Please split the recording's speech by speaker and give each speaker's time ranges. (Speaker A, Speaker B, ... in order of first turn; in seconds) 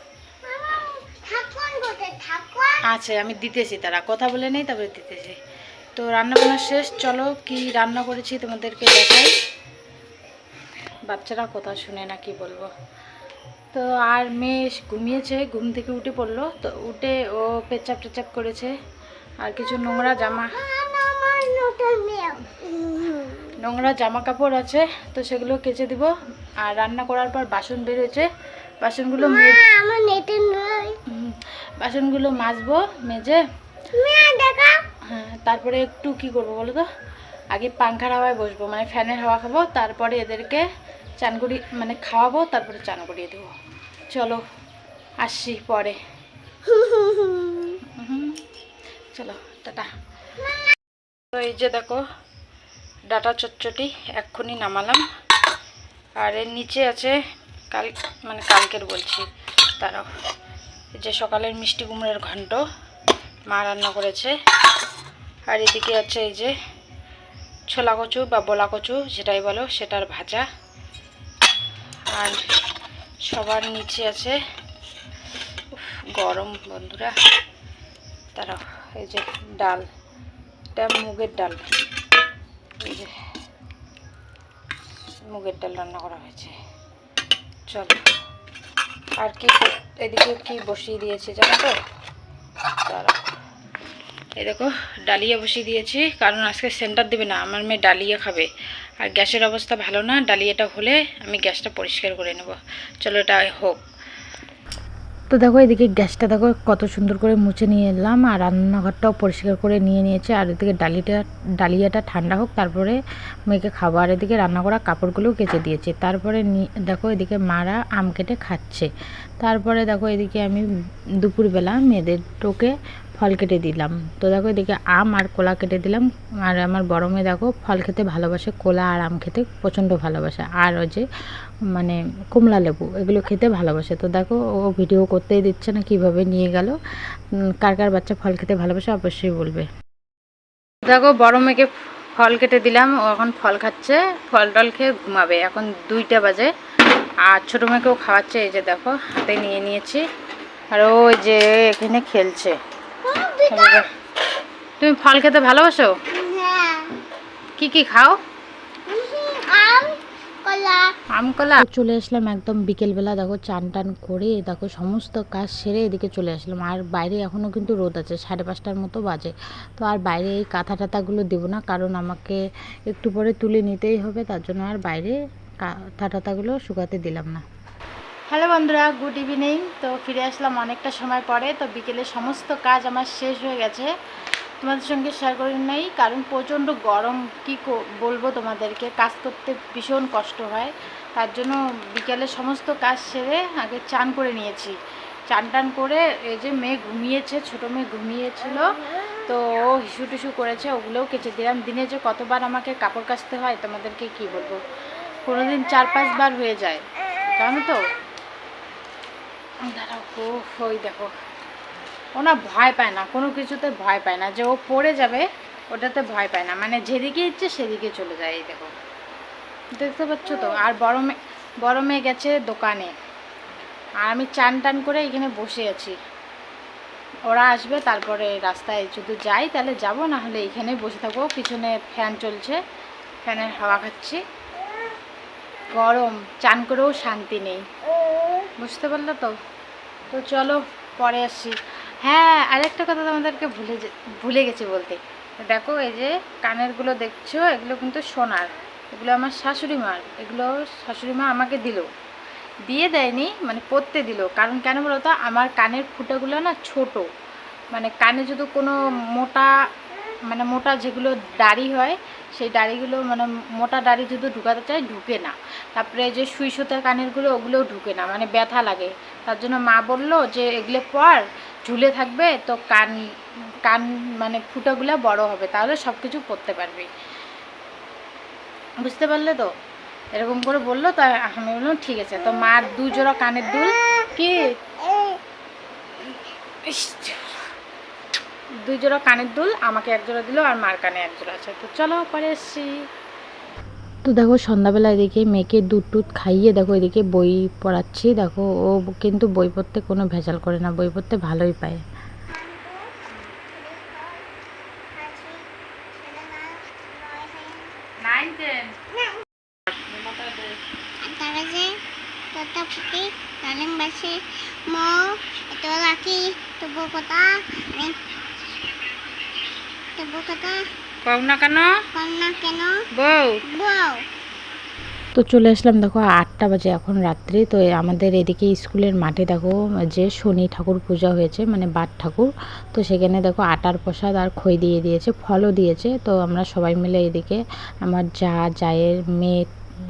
Speaker A: 0.5-2.8, 20.5-23.6, 29.2-31.0, 33.9-34.8, 46.7-47.8, 153.0-153.8, 156.1-157.0, 158.9-160.9, 284.9-285.2, 302.3-304.3, 304.9-307.7, 311.0-311.8, 312.3-318.0, 320.0-320.6, 321.9-322.8, 323.5-324.0
Speaker B: 2.9-5.4, 6.0-9.3, 11.1-12.7, 13.7-18.8, 19.4-20.5, 23.6-26.1, 26.6-28.3, 28.8-29.6, 31.1-33.4, 35.1-36.9, 37.5-40.6, 41.2-43.5, 44.1-44.4, 45.2-46.0, 47.9-48.4, 49.1-49.9, 51.3-52.0, 53.1-55.0, 56.2-57.2, 57.7-59.2, 59.8-60.1, 61.0-62.6, 63.5-64.4, 65.5-66.5, 67.7-70.5, 72.1-72.4, 73.3-74.4, 75.7-77.2, 78.4-79.9, 80.8-81.6, 82.8-83.1, 85.3-86.5, 87.7-88.0, 89.2-91.8, 92.9-93.2, 94.4-98.5, 99.0-103.8, 105.3-118.9, 119.4-120.6, 121.2-131.1, 131.7-136.8, 137.6-139.7, 140.8-146.5, 147.3-150.0, 150.7-152.6, 153.5-153.8, 154.8-156.0, 157.6-158.2, 161.1-177.4, 178.3-183.9, 184.6-194.8, 195.3-198.6, 199.2-204.6, 205.2-207.8, 209.7-211.1, 212.2-218.7, 219.8-222.9, 224.0-226.0, 227.3-232.6, 233.2-234.2, 235.8-237.6, 238.6-239.3, 240.1-251.9, 252.7-257.1, 257.7-259.5, 260.3-273.0, 273.7-276.9, 278.8-279.5, 280.2-284.5, 286.6-287.4, 288.7-292.7, 294.1-301.8, 308.0-308.8, 309.8-310.6, 321.1-321.7, 323.0-323.4, 325.1-339.5